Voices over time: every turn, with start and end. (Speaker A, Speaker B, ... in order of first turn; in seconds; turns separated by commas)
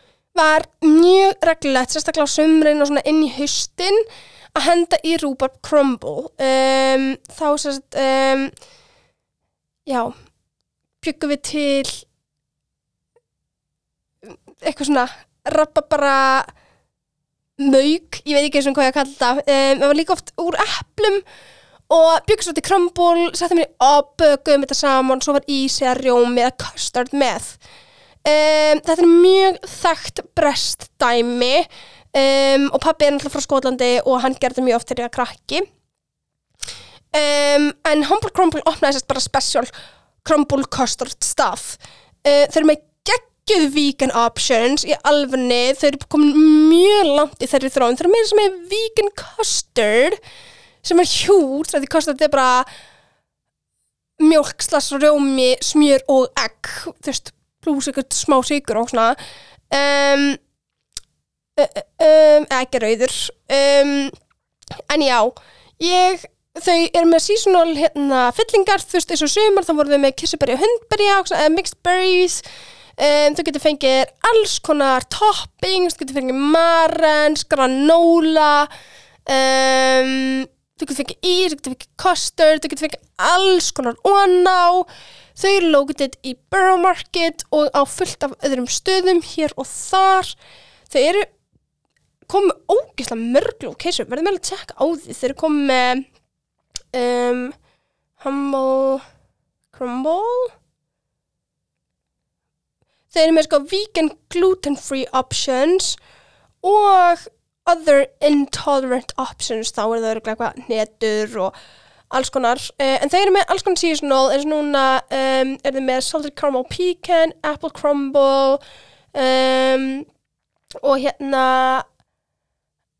Speaker A: 0.3-4.0, Speaker A: 4.5-8.5, Speaker A: 9.9-10.1, Speaker A: 11.0-12.1, Speaker A: 14.2-16.5, Speaker A: 17.6-21.2, Speaker A: 21.9-27.6, Speaker A: 28.2-35.6, Speaker A: 37.1-39.7, Speaker A: 40.2-50.2, Speaker A: 50.8-52.7, Speaker A: 54.2-59.2, Speaker A: 59.7-60.4, Speaker A: 61.6-64.2, Speaker A: 64.9-72.4, Speaker A: 73.0-78.7, Speaker A: 79.3-90.3, Speaker A: 90.9-91.3, Speaker A: 92.3-96.0, Speaker A: 96.9-97.6, Speaker A: 98.2-99.0, Speaker A: 99.7-100.5, Speaker A: 103.1-106.0, Speaker A: 106.6-111.5, Speaker A: 112.1-118.6, Speaker A: 119.1-120.1, Speaker A: 120.8-121.8